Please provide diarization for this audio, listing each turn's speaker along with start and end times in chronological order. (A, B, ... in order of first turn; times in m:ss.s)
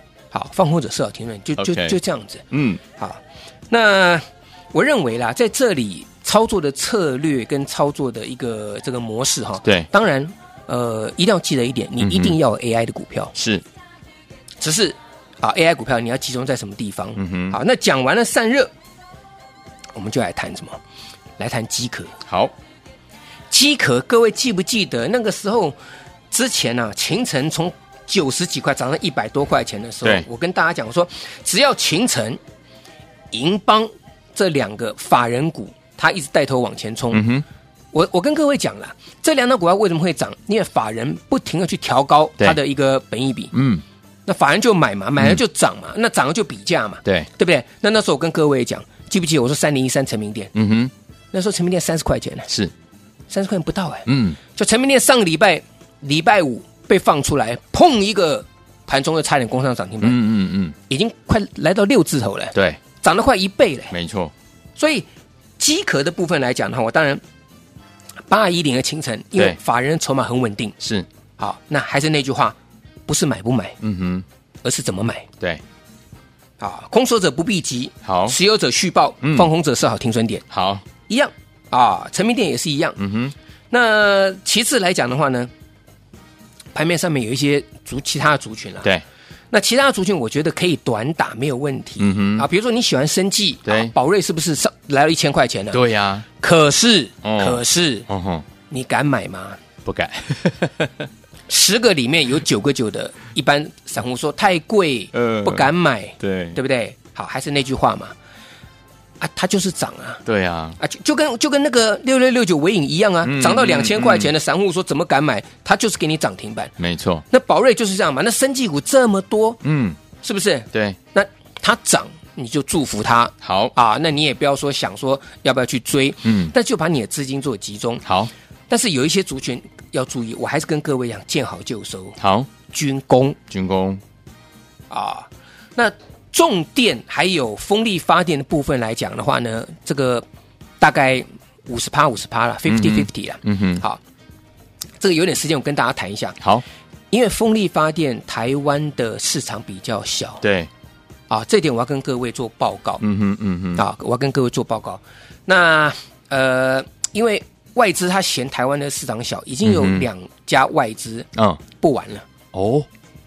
0:00.3-0:13.3 A
0:01.6-0:02.0 B
0:02.5-0:02.8 B
0:12.0-0:12.4 B
0:13.3-0:13.6 B
0:14.6-0:18.7 A
0:17.2-0:17.6 B
0:19.9-0:20.8 A
0:21.4-0:22.1 A
0:22.2-0:22.5 B
0:23.5-0:25.8 A
0:26.3-0:32.4 A
0:33.3-0:37.2 A
0:37.1-0:37.4 B
0:37.9-0:43.5 A
0:43.5-0:43.8 B
0:44.2-0:50.5 A
0:50.5-0:50.9 B
0:51.3-0:52.5 A
0:53.3-1:00.2 A
0:54.1-0:54.4 B
1:00.0-1:00.8 B
1:00.9-1:03.9 A
1:02.5-1:02.8 B
1:03.9-1:04.3 B
1:04.8-1:05.1 A
1:05.6-1:07.2 A
1:08.3-1:10.8 A
1:10.8-1:11.1 B
1:11.4-1:12.6 A
1:13.1-1:13.8 A
1:13.8-1:14.2 B
1:14.6-1:15.3 A
1:16.6-1:20.4 A
1:18.0-1:18.4 B
1:19.2-1:19.5 B
1:20.5-1:20.8 B
1:21.1-1:23.0 A
1:23.0-1:23.3 B
1:23.7-1:25.5 A
1:26.7-1:28.9 A
1:29.5-1:35.8 A
1:32.0-1:32.5 B
1:33.6-1:33.9 B
1:35.7-1:36.2 B
1:36.4-1:38.1 A
1:37.2-1:38.4 B
1:38.7-1:39.6 A
1:39.8-1:41.1 B
1:41.5-1:48.1 A
1:45.1-1:45.7 B
1:46.2-1:46.6 B
1:49.2-1:50.2 A
1:50.2-1:50.8 B
1:50.8-1:56.7 A
1:53.2-1:54.3 B
1:56.8-1:57.2 B
1:57.3-1:59.6 A
1:59.6-2:00.0 B
2:00.2-2:08.0 A
2:03.4-2:03.7 B
2:06.2-2:06.5 B
2:08.0-2:08.3 B
2:08.7-2:12.2 A
2:12.2-2:12.5 B
2:12.7-2:13.4 A
2:13.5-2:14.0 B
2:14.9-2:20.2 A
2:20.8-2:24.0 A
2:22.6-2:23.8 B
2:25.0-2:26.4 A
2:27.1-2:30.4 A
2:30.4-2:30.7 B
2:31.3-2:33.0 A
2:33.0-2:33.8 B
2:33.8-2:42.2 A
2:39.6-2:40.1 B
2:41.4-2:41.6 B
2:42.5-2:42.9 B